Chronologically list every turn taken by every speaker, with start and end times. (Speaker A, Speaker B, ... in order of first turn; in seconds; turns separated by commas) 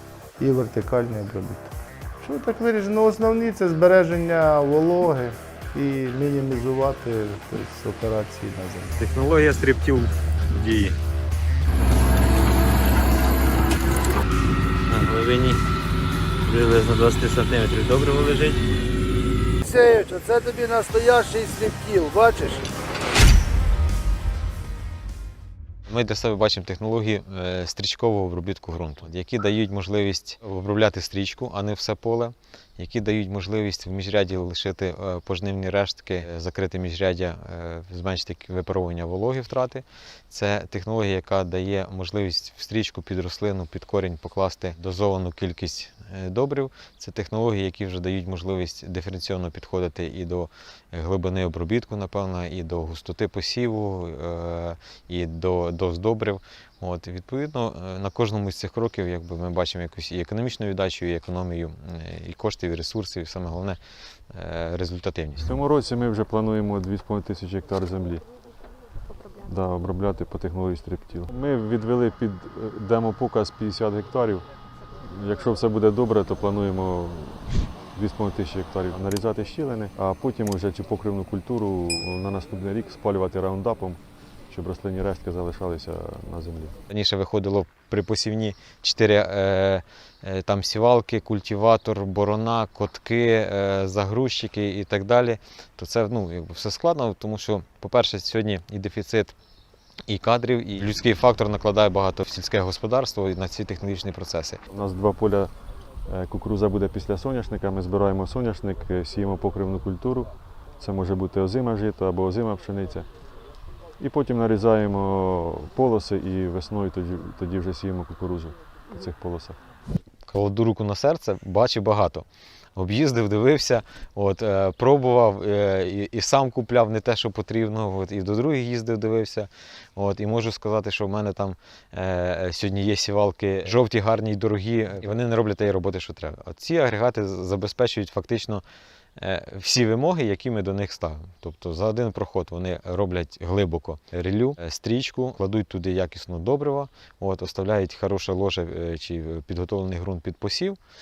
Speaker A: 0.4-9.0, Speaker B: 9.0-10.9, Speaker B: 14.9-15.6, Speaker B: 16.4-18.6, Speaker C: 19.6-22.7, Speaker B: 25.9-63.8, Speaker B: 64.3-65.5, Speaker D: 65.4-68.2, Speaker D: 69.4-74.5, Speaker D: 75.0-86.8, Speaker B: 86.9-99.3, Speaker B: 100.1-104.6, Speaker D: 104.7-105.5, Speaker D: 106.1-110.3, Speaker D: 110.8-113.1, Speaker D: 114.0-119.6, Speaker B: 120.3-138.6, Speaker B: 139.2-150.8